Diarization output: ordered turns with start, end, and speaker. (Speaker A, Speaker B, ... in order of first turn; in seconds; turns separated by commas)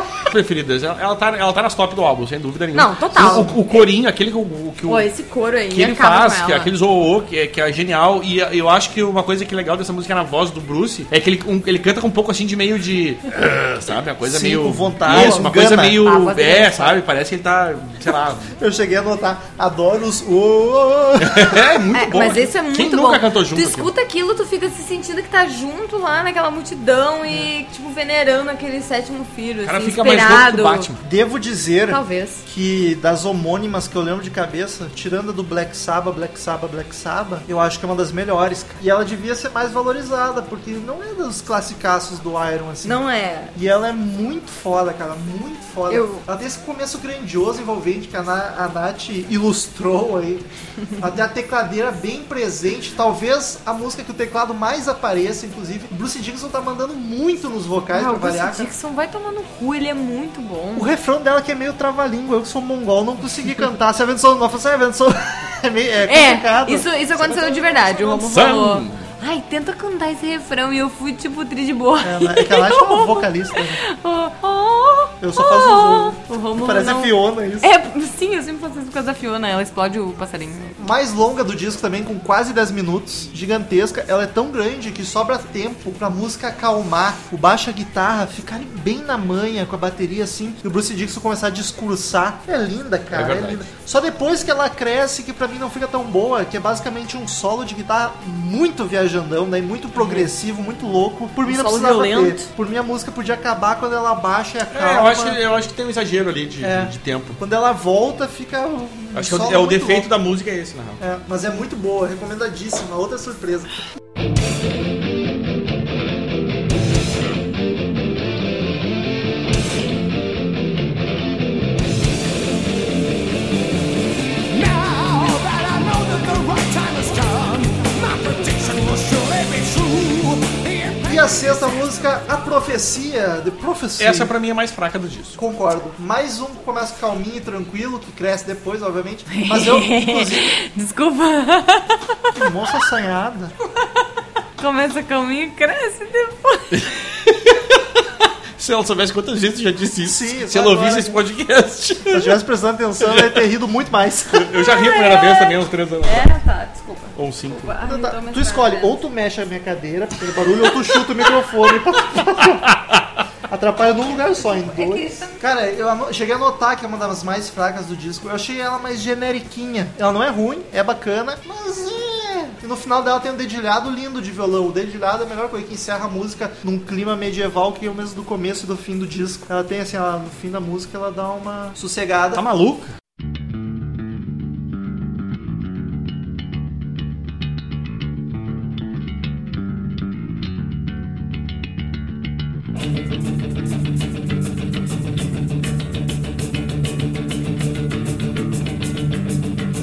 Speaker A: 0.2-5.1, Speaker B: 2.7-3.9, Speaker B: 4.9-6.7, Speaker A: 5.7-18.5, Speaker C: 14.2-16.0, Speaker B: 15.1-15.5, Speaker B: 16.0-17.0, Speaker C: 18.6-21.8, Speaker A: 21.2-23.9, Speaker B: 21.9-30.9, Speaker A: 29.6-31.0, Speaker C: 31.0-50.4, Speaker B: 31.9-32.4, Speaker B: 42.8-43.5, Speaker B: 45.9-46.2, Speaker C: 51.0-58.7, Speaker B: 57.9-60.9, Speaker C: 60.7-67.8, Speaker B: 66.1-80.8, Speaker A: 68.0-69.0, Speaker C: 72.0-73.8, Speaker C: 75.2-77.7, Speaker C: 80.8-105.4, Speaker A: 93.1-93.6, Speaker A: 100.0-100.3, Speaker B: 101.5-102.5, Speaker A: 104.7-107.4, Speaker C: 106.6-110.1, Speaker A: 109.1-111.0, Speaker C: 111.0-113.8, Speaker D: 124.5-131.9, Speaker C: 131.1-134.3, Speaker A: 134.0-135.4, Speaker C: 135.4-140.6, Speaker B: 139.3-142.2, Speaker C: 142.3-143.5, Speaker B: 144.6-146.8, Speaker A: 146.7-152.3, Speaker C: 150.0-151.2, Speaker C: 152.1-154.5, Speaker A: 153.0-153.4, Speaker A: 154.3-156.3, Speaker B: 154.6-159.0, Speaker A: 157.2-157.7, Speaker C: 157.8-162.8, Speaker A: 162.7-163.0, Speaker C: 163.5-182.4, Speaker B: 164.4-165.4, Speaker A: 182.3-182.9